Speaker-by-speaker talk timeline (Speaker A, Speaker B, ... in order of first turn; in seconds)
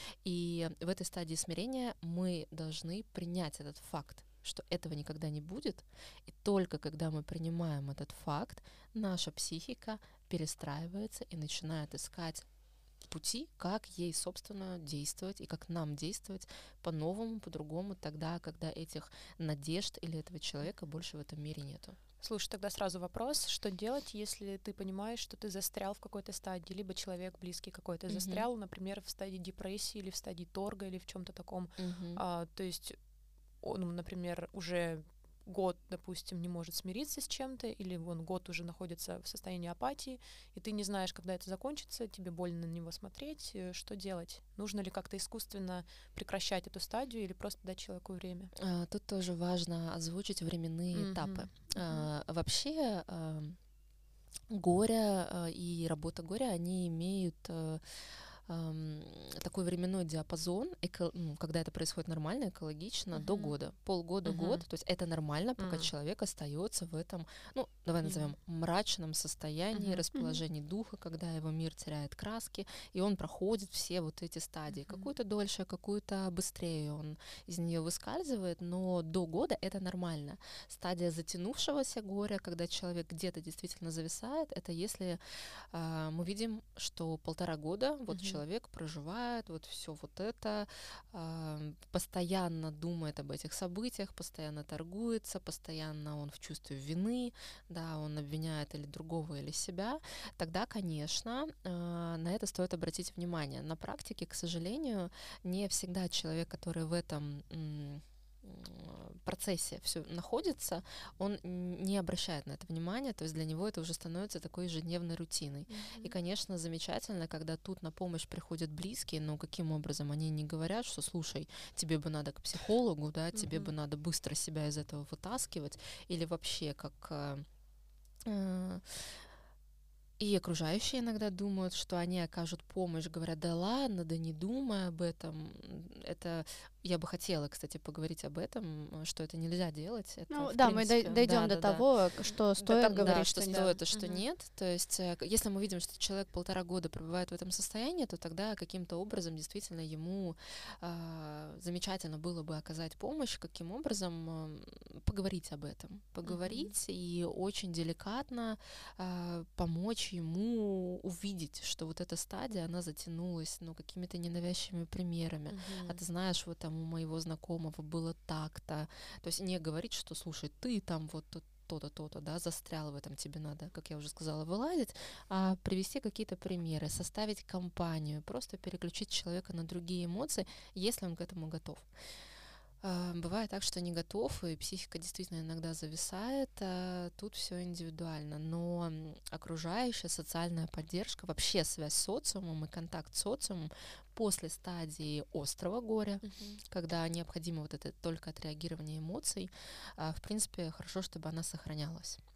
Speaker A: 0.2-12.5, 13.1-22.0, 28.1-28.5, 31.8-32.2, 48.6-53.6, 54.5-127.5, 128.2-129.2, 130.2-142.0, 142.6-181.9, 182.8-202.2
Speaker B: 22.2-33.0, 33.6-48.5, 51.0-52.1, 63.1-63.6, 64.2-64.6, 65.6-65.9, 68.0-68.3, 69.7-70.0, 74.7-75.1, 88.1-88.4, 115.7-116.2, 123.3-123.7, 142.7-144.2, 156.2-156.8, 165.5-166.0, 196.2-196.6
Speaker C: 140.3-143.8